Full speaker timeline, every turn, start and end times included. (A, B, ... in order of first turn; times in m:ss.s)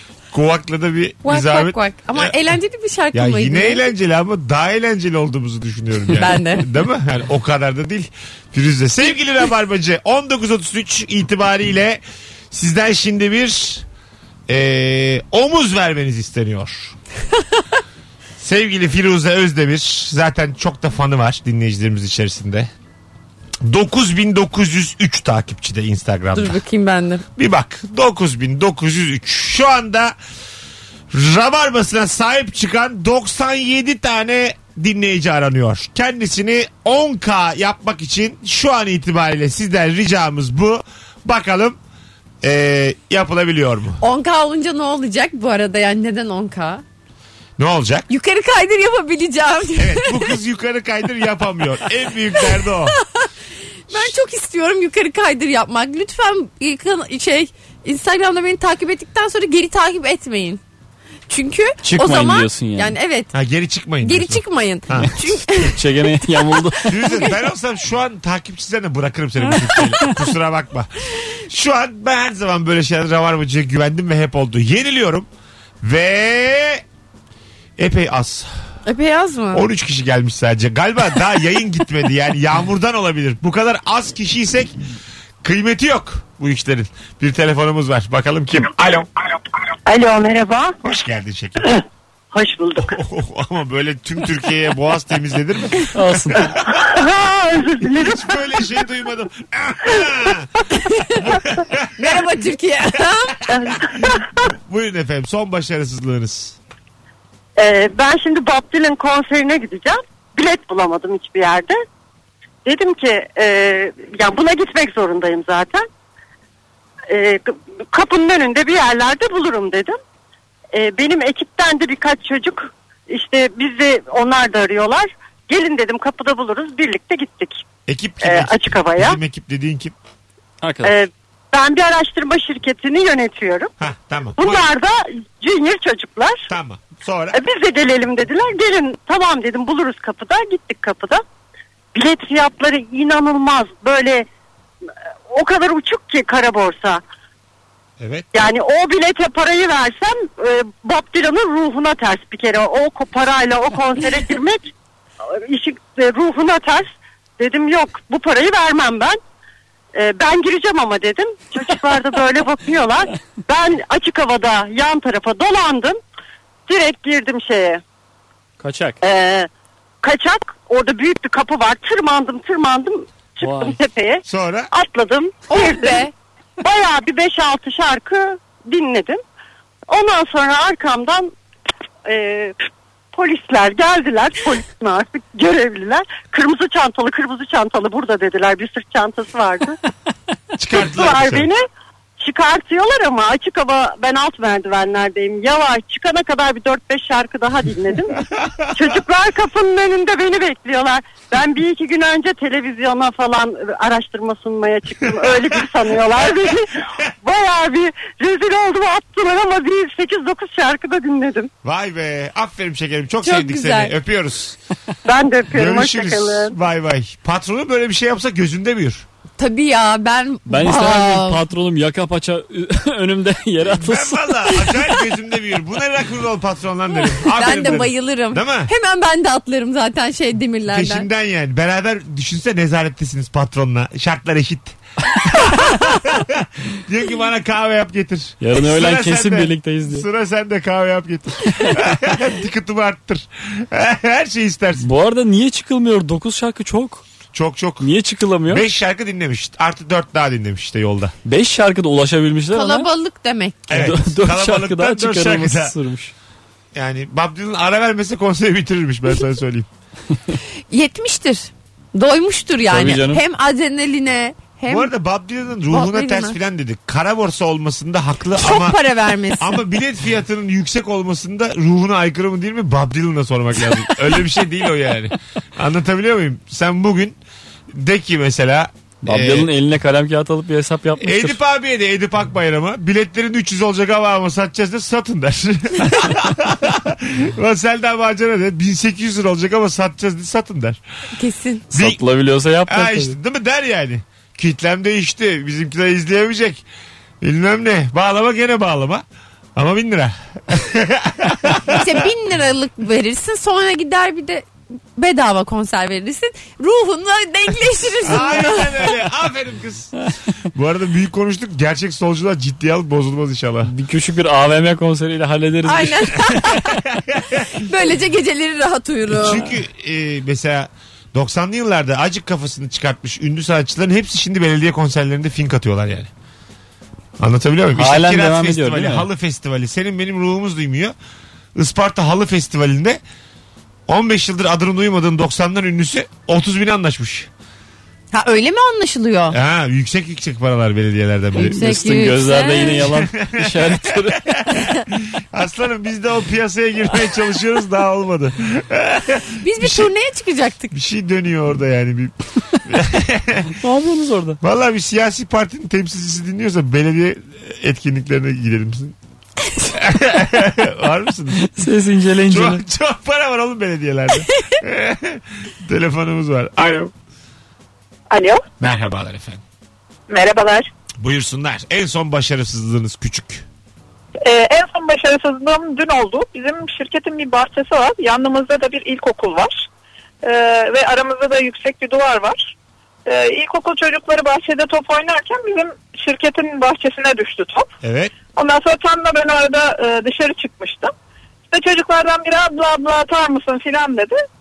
0:00.3-0:02.3 A
0:01.2-0:03.8 B
0:03.1-0:13.9 A
0:06.2-0:06.7 B
0:14.5-0:17.0 A
0:18.4-0:22.7 A
0:23.6-0:26.6 A
0:26.4-0:27.2 B
0:27.4-0:30.2 A
0:31.1-0:41.8 A
0:42.4-0:44.0 A
0:44.0-0:46.8 B
0:47.6-0:48.1 A
0:48.1-0:50.4 B
0:49.8-0:53.0 A
0:53.0-0:53.3 B
0:53.9-1:00.6 B
1:01.3-1:03.3 B
1:01.8-1:03.0 C
1:03.3-1:05.2 A
1:04.0-1:05.9 B
1:05.6-1:07.0 C
1:06.9-1:15.3 A
1:07.0-1:07.3 B
1:15.8-1:16.8 A
1:17.8-1:18.5 A
1:18.9-1:19.7 B
1:19.5-1:24.8 A
1:25.4-1:29.1 A
1:29.9-1:30.8 D
1:30.8-1:31.7 A
1:32.3-1:33.0 D
1:32.8-1:36.7 A
1:35.9-1:36.5 C
1:36.6-1:38.4 D
1:37.8-1:40.5 A
1:41.2-1:42.3 A
1:42.0-1:43.4 B
1:43.5-1:46.6 A
1:43.5-1:44.4 D
1:47.6-1:51.8 D
1:52.6-1:55.8 D
1:57.1-2:00.0 D
2:00.7-2:07.6 D
2:07.9-2:10.0 A
2:08.2-2:09.2 D
2:10.6-2:11.0 C
2:10.8-2:13.7 D
2:13.8-2:14.7 A
2:14.4-2:16.5 D
2:16.5-2:17.4 A
2:17.3-2:21.2 D
2:21.9-2:24.3 D
2:25.3-2:27.0 D
2:28.0-2:28.3 A
2:28.3-2:34.7 D
2:35.4-2:36.9 D
2:37.4-2:39.2 D
2:39.9-2:46.0 D
2:46.7-2:47.8 D
2:48.6-2:49.0 C
2:49.0-2:49.5 D
2:50.0-2:56.1 D
2:53.4-2:53.8 C
2:54.3-2:54.7 A
2:55.5-2:56.1 B
2:56.6-2:59.2 D
2:59.9-3:01.3 D
3:02.1-3:09.8 D
3:10.6-3:11.5 A
3:10.7-3:11.6 D
3:12.2-3:18.2 D
3:18.3-3:18.9 A
3:18.7-3:31.5 D
3:31.6-3:34.6 A
3:33.2-3:33.9 B
3:35.1-3:36.6 D
3:35.5-3:39.0 A
3:39.4-3:41.4 B
3:40.5-3:44.6 C
3:43.6-3:48.7 A
3:47.1-3:51.1 B
3:50.7-4:04.9 A
3:58.4-4:00.1 C
4:04.8-4:07.0 C
4:07.3-4:07.9 A
4:07.8-4:08.6 C
4:08.5-4:11.2 A
4:11.2-4:12.9 C
4:12.5-4:13.9 B
4:13.7-4:15.8 A
4:13.7-4:16.1 C
4:16.7-4:19.7 A
4:20.7-4:24.9 B
4:22.7-4:23.2 C
4:24.7-4:28.8 A
4:25.7-4:26.4 B
4:28.4-4:29.6 B
4:29.4-4:37.2 A
4:37.7-4:39.5 A
4:39.0-4:41.4 C
4:41.0-4:50.8 A
4:51.2-4:51.6 B
4:51.7-4:52.0 A
4:51.7-4:53.2 C
4:52.7-4:56.6 A
4:57.2-4:59.0 A
4:59.6-5:01.8 A
5:01.7-5:08.9 B
5:08.0-5:10.0 A
5:10.5-5:13.7 A
5:13.6-5:16.2 C
5:15.6-5:16.8 B
5:16.4-5:17.5 A
5:17.5-5:19.5 B
5:19.2-5:26.1 A
5:27.2-5:30.9 A
5:27.8-5:29.1 C
5:31.6-5:33.0 A
5:33.9-5:37.3 A
5:38.1-5:39.4 B
5:39.3-5:41.8 A
5:41.4-5:42.8 B
5:41.5-5:44.4 C
5:42.6-5:49.9 A
5:49.4-5:50.8 B
5:50.7-5:53.6 A
5:53.6-5:54.4 C
5:54.4-5:59.0 A
5:59.7-6:01.6 A
6:01.4-6:02.6 C
6:02.3-6:06.9 A
6:08.1-6:08.4 E
6:08.6-6:09.4 A
6:10.1-6:10.7 E
6:11.0-6:13.4 A
6:14.2-6:19.6 E
6:20.2-6:22.5 E
6:23.0-6:27.7 E
6:27.8-6:28.1 A
6:28.3-6:30.9 E
6:31.5-6:34.2 E